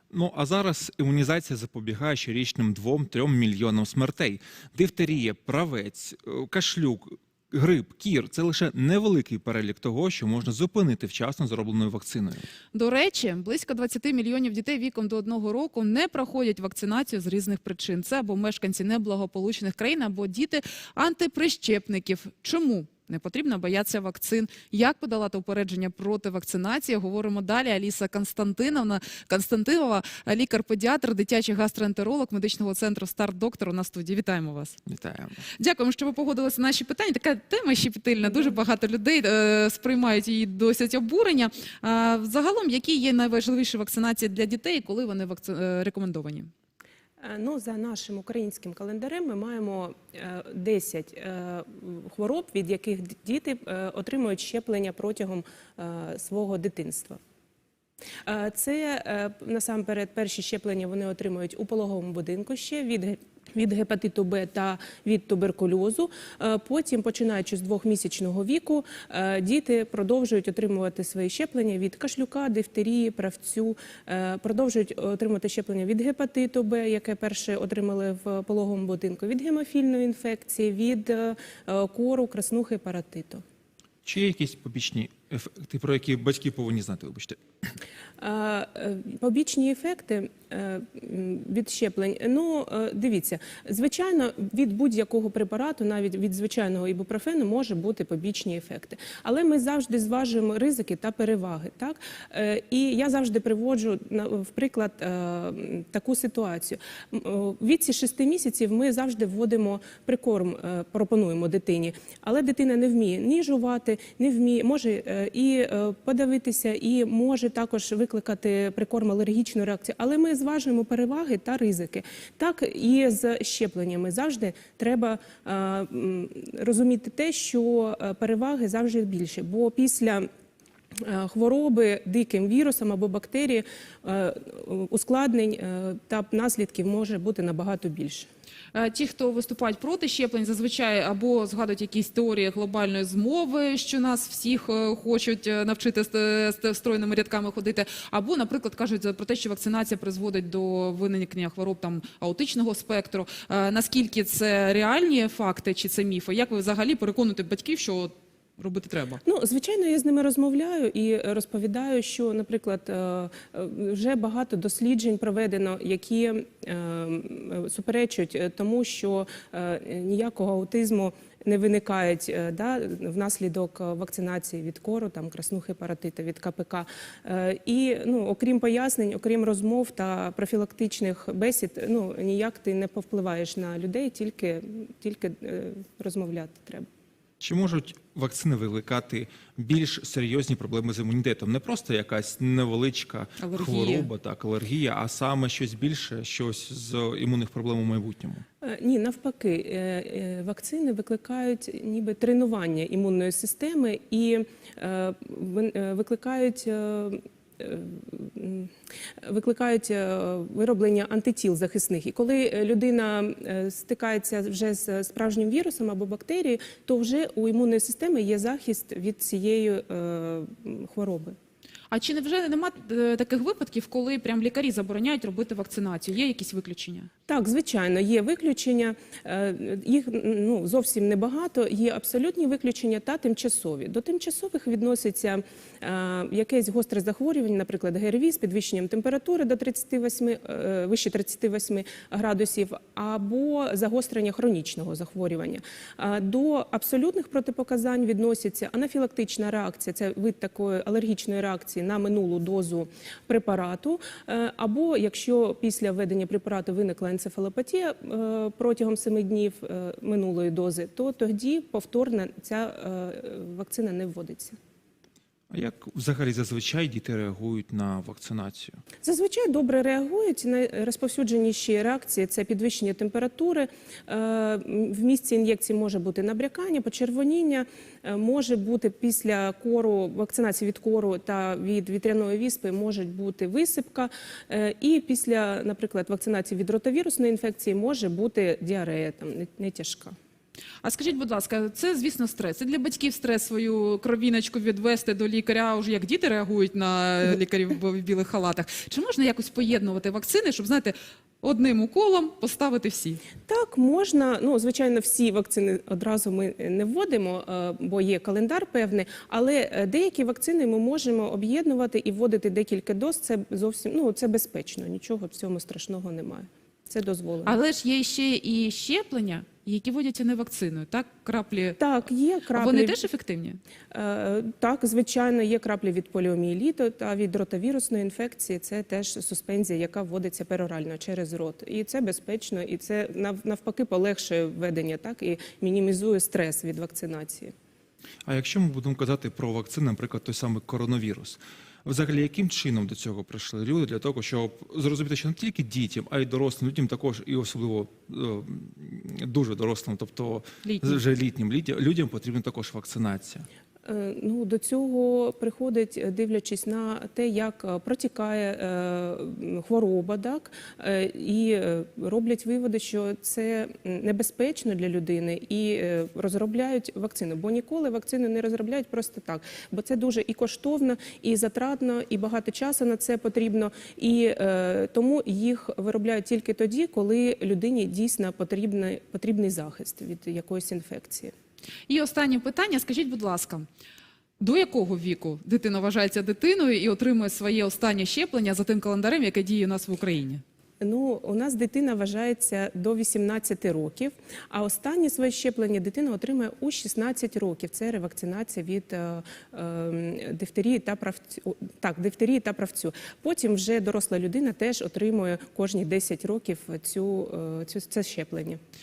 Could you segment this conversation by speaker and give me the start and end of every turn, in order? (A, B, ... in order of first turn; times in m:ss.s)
0:00.1-0:12.5 A
0:12.7-0:34.8 B
0:34.9-0:35.4 A
0:35.6-0:46.5 B
0:47.2-0:57.2 C
0:58.2-1:23.4 C
1:24.0-1:27.7 A
1:28.2-2:10.3 C
2:11.0-2:18.3 C
2:18.7-2:39.2 B
2:39.2-3:06.9 C
3:07.4-3:18.4 A
3:13.4-3:14.1 B
3:18.6-3:28.7 C
3:29.2-3:41.4 C
3:41.9-3:47.1 B
3:47.3-4:24.6 C
4:25.5-4:28.8 A
4:29.0-4:50.2 C
4:50.8-5:03.2 B
5:03.5-5:17.6 C
5:17.4-5:21.8 B
5:21.8-5:23.0 C
5:22.6-5:23.6 B
5:23.9-5:37.5 C
5:38.3-5:53.5 A
5:50.6-5:51.0 B
5:53.8-6:21.3 C
6:21.9-6:23.7 B
6:24.4-6:30.4 B
6:30.8-6:48.6 C